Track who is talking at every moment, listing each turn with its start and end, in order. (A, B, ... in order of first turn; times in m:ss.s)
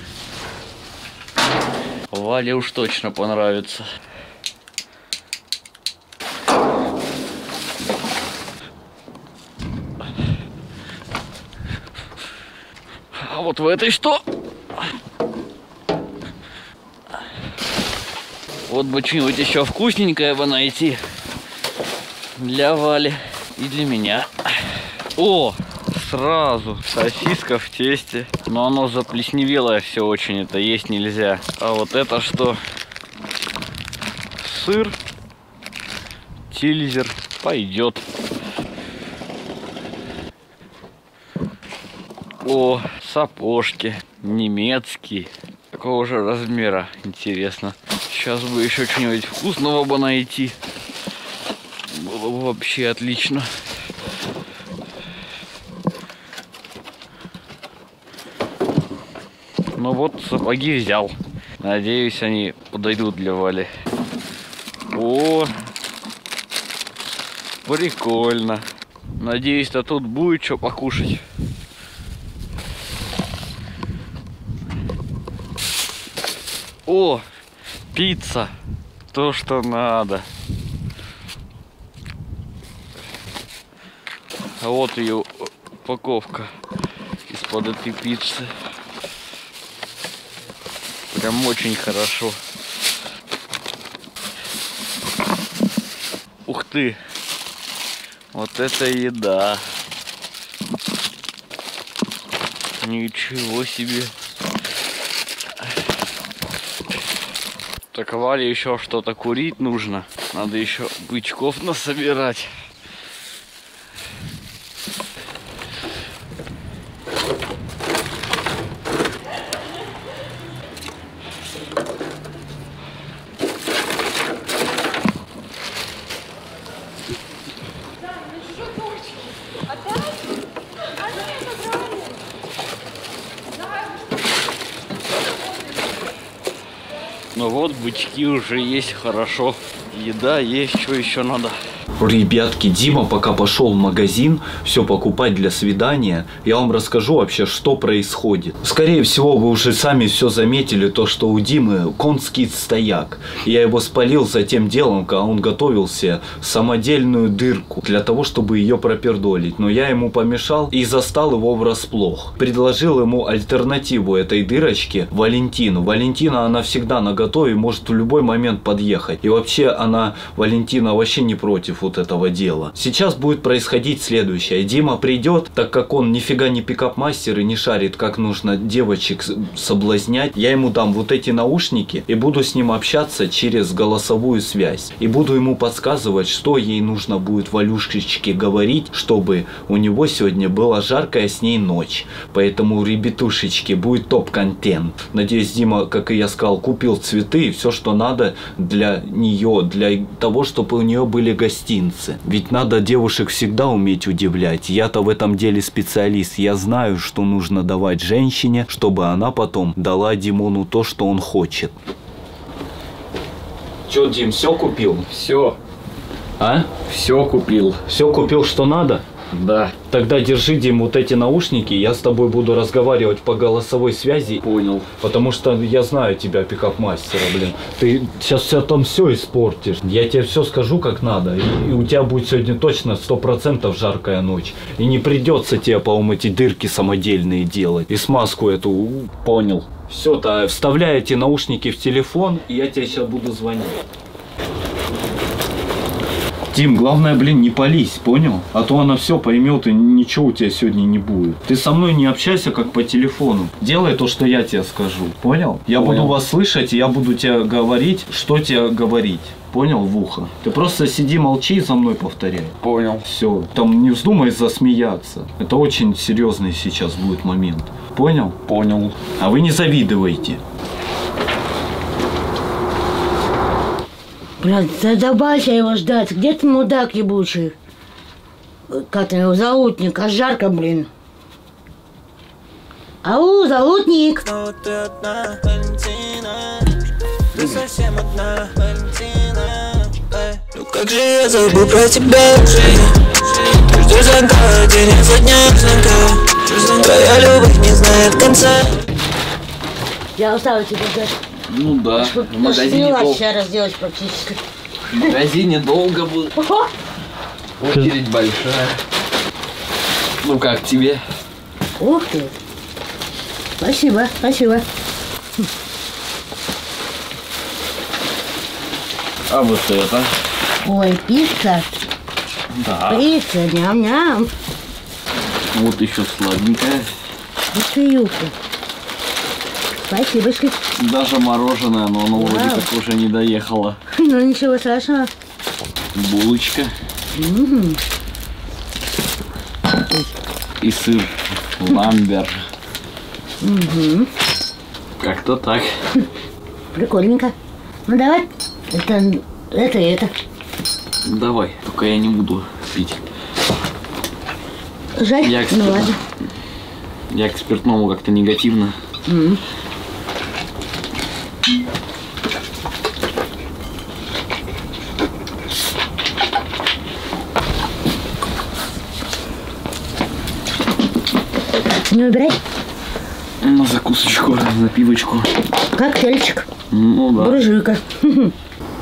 0:02.1-0:03.8 A
0:13.1-0:14.2 A
0:18.7-0:21.0 A
0:22.4-0:32.6 A
0:34.4-0:35.0 A
0:36.5-0:38.0 A
0:42.4-0:50.6 A
0:51.9-0:53.6 A
0:59.8-1:03.7 A
1:04.9-1:05.5 A
1:07.6-1:11.2 A
1:16.9-1:17.2 A
1:17.9-1:18.5 A
1:19.1-1:20.3 A
1:24.6-1:26.5 A
1:27.3-1:28.5 A
1:31.1-1:32.4 A
1:36.5-1:37.0 A
1:38.3-1:39.6 A
1:42.8-1:44.1 A
1:47.9-1:52.5 A
2:17.3-2:21.6 A
2:22.0-3:31.8 B
3:33.9-3:35.1 B
3:35.1-3:35.6 A
3:36.4-3:36.7 B
3:36.7-3:37.8 A
3:37.9-3:39.0 B
3:39.3-3:39.8 A
3:39.9-3:44.4 B
3:44.4-3:44.9 A
3:45.0-4:03.8 B
3:59.2-3:59.6 A
4:06.5-4:28.4 B
4:15.8-4:16.2 A
4:22.6-4:23.1 A
4:28.5-4:29.0 A
4:29.2-4:30.4 B
4:34.4-4:37.6 C
4:38.7-4:40.9 C
4:43.0-4:44.3 C
4:44.3-4:46.7 D
4:47.3-4:58.8 D
5:00.2-5:01.2 C
5:01.5-5:03.2 A
5:02.0-5:04.4 C
5:04.9-5:06.4 A
5:06.4-5:06.7 C
5:07.6-5:08.8 A
5:10.2-5:11.0 A
5:11.8-5:12.4 C
5:13.6-5:14.7 C
5:19.3-5:20.1 A
5:20.6-5:21.7 C
5:22.5-5:23.1 A
5:22.9-5:24.3 C
5:25.5-5:27.0 A
5:27.5-5:28.3 C
5:29.9-5:30.6 C
5:30.8-5:33.8 A
5:32.2-5:32.7 C
5:33.9-5:35.1 C
5:35.9-5:36.7 A
5:37.2-5:37.8 C
5:40.6-5:42.4 A
5:43.4-5:44.1 C
5:45.0-5:45.8 A
5:46.7-5:47.4 C
5:47.9-5:50.1 C
5:51.0-5:53.0 A
5:55.0-5:56.0 C
5:55.2-5:55.9 A
5:57.1-5:58.8 A
5:59.1-5:59.4 C
6:11.9-6:12.4 C
6:13.4-6:15.3 A
6:15.7-6:16.5 C
6:16.7-6:17.4 A
6:17.2-6:18.3 C